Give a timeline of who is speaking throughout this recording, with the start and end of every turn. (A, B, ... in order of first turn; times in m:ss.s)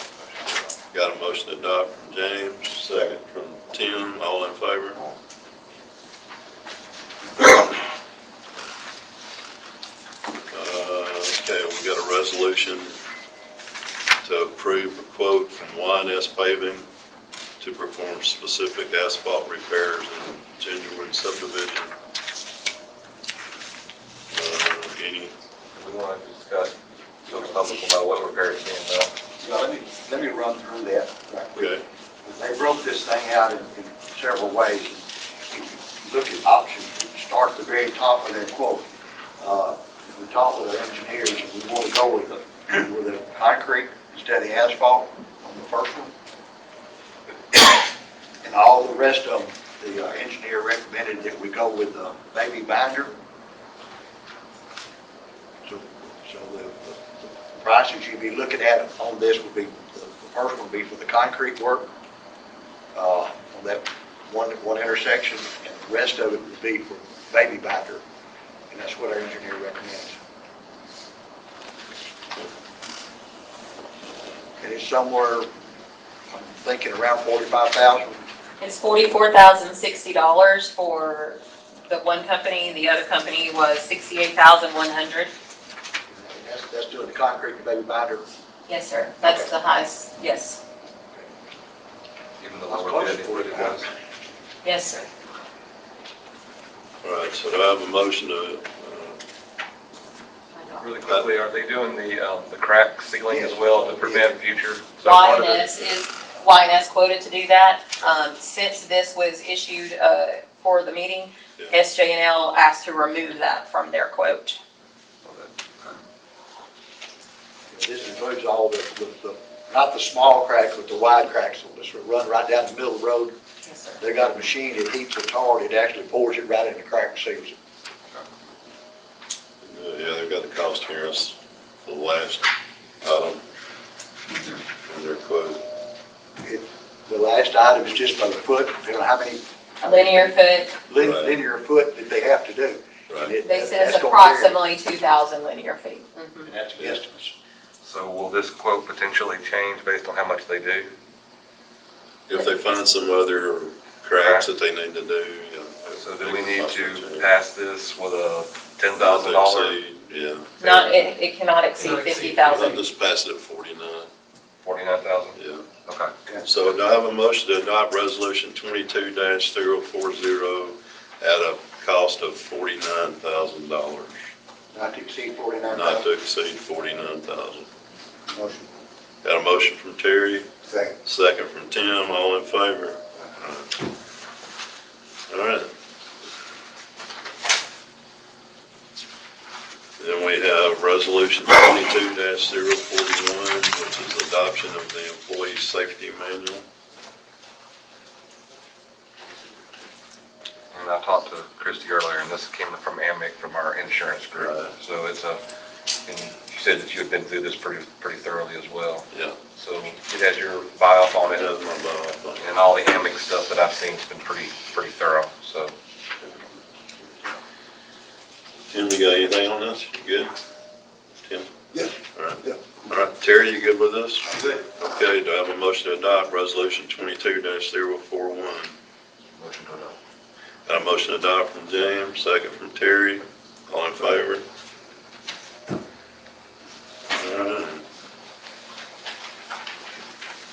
0:00.9-0:05.0 A
0:10.5-0:13.0 A
0:14.2-0:16.8 A
0:17.6-0:21.9 A
0:24.3-0:25.3 A
0:25.7-0:29.1 B
0:29.4-0:38.8 C
0:31.5-0:31.8 A
0:39.4-0:46.1 C
0:48.4-0:53.1 C
0:55.6-1:01.9 C
1:02.9-1:08.0 C
1:08.7-1:10.2 C
1:14.6-1:15.5 C
1:16.3-1:18.2 C
1:18.6-1:25.3 D
1:26.1-1:28.2 C
1:28.7-1:30.6 D
1:32.4-1:33.9 B
1:32.7-1:33.8 C
1:34.6-1:35.1 D
1:37.0-1:39.2 A
1:40.5-1:40.9 D
1:40.8-1:45.6 B
1:43.3-1:44.4 C
1:45.0-1:54.6 D
1:55.2-1:55.9 B
1:57.7-2:03.3 C
2:03.6-2:04.0 D
2:04.0-2:07.5 C
2:09.6-2:12.4 A
2:13.0-2:13.4 A
2:14.8-2:15.6 A
2:16.4-2:19.4 C
2:19.8-2:20.8 D
2:19.9-2:20.3 C
2:20.9-2:24.6 C
2:21.0-2:21.3 A
2:23.4-2:26.5 D
2:26.4-2:27.3 C
2:27.8-2:30.9 B
2:32.3-2:37.2 A
2:34.2-2:34.5 B
2:35.9-2:39.8 B
2:39.0-2:40.8 A
2:40.6-2:42.8 D
2:41.8-2:42.4 B
2:42.4-2:44.1 A
2:44.6-2:46.1 B
2:45.4-2:45.6 A
2:46.4-2:54.2 A
2:54.7-2:56.1 C
2:55.7-2:57.7 A
2:58.3-2:58.7 C
2:59.2-3:00.4 A
3:00.6-3:00.9 C
3:01.0-3:03.7 A
3:05.3-3:05.7 A
3:10.0-3:16.6 A
3:20.7-3:25.4 B
3:24.4-3:24.7 A
3:26.0-3:31.5 B
3:29.1-3:29.4 A
3:31.2-3:32.6 A
3:32.4-3:35.7 B
3:38.7-3:40.3 A
3:41.2-3:41.5 A
3:41.7-3:42.6 C
3:42.1-3:48.7 A
3:49.4-3:50.0 B
3:50.7-3:54.4 A
3:57.1-3:57.8 A